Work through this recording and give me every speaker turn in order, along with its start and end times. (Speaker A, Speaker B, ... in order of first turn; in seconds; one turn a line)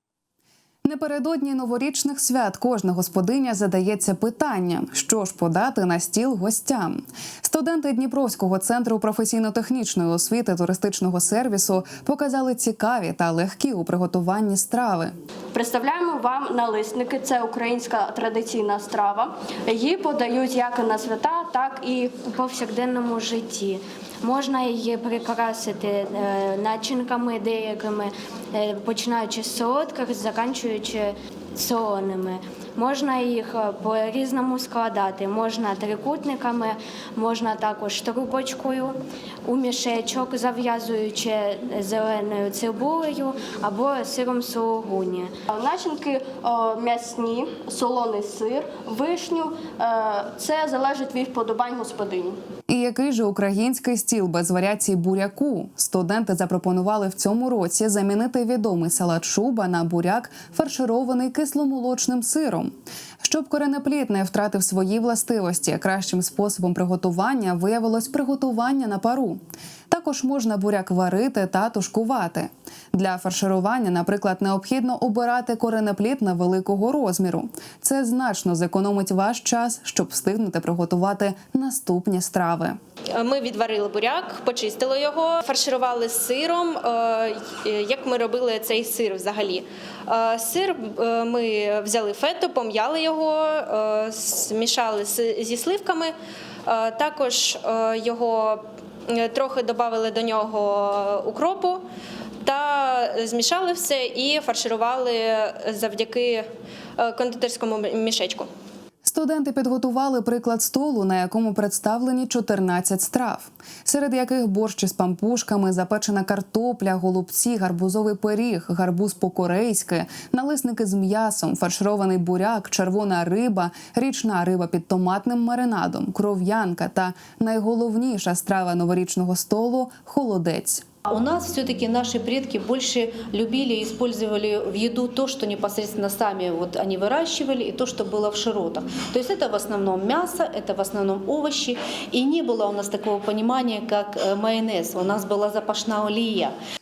Speaker A: 0.8-15.1
Speaker B: 15.5-22.1
Speaker C: 22.2-45.3
Speaker B: 45.5-52.4
Speaker A: 52.7-82.8
Speaker D: 83.2-96.1
Speaker D: 96.7-101.8
Speaker D: 102.4-106.5
Speaker D: 107.0-108.5
Speaker A: 109.0-130.8
Speaker E: 131.1-146.5